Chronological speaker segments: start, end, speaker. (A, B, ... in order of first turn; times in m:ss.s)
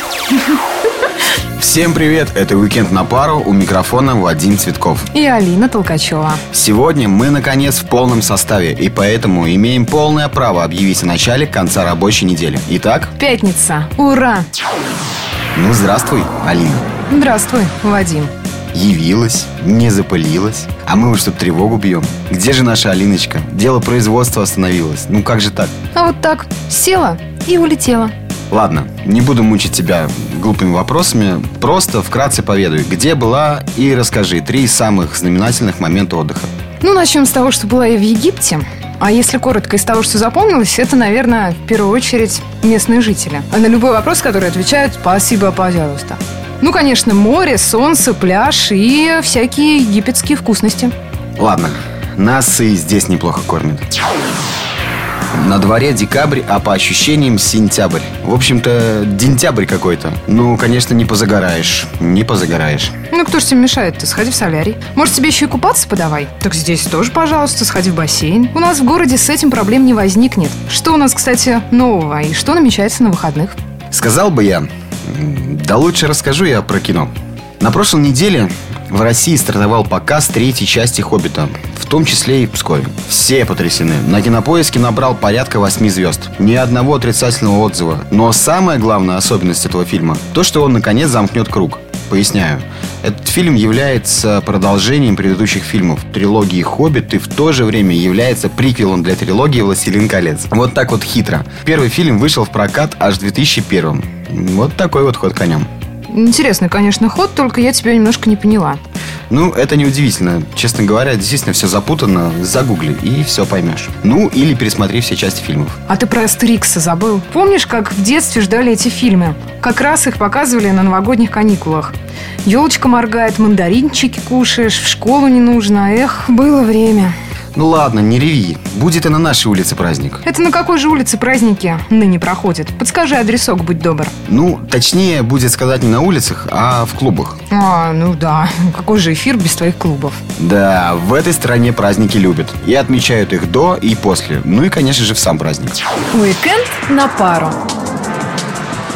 0:01.6-0:05.1 A
0:05.1-0:06.4 B
0:06.5-0:13.1 A
0:13.2-0:14.5 B
0:15.5-0:16.9 A
0:17.1-0:18.3 B
0:18.7-0:25.7 A
0:26.0-0:28.1 B
0:28.5-0:36.5 A
0:36.8-0:50.9 B
0:51.4-0:53.9 A
0:55.3-1:03.0 A
1:03.1-1:13.6 B
1:13.9-1:45.7 A
1:46.1-1:48.8 B
1:49.3-1:55.8 A
1:55.9-2:01.9 B
2:02.4-2:07.1 B
2:07.6-2:10.2 A
2:10.2-2:14.1 B
2:14.3-2:17.4 A
2:17.5-2:20.2 B
2:20.4-2:25.8 A
2:26.1-2:27.6 B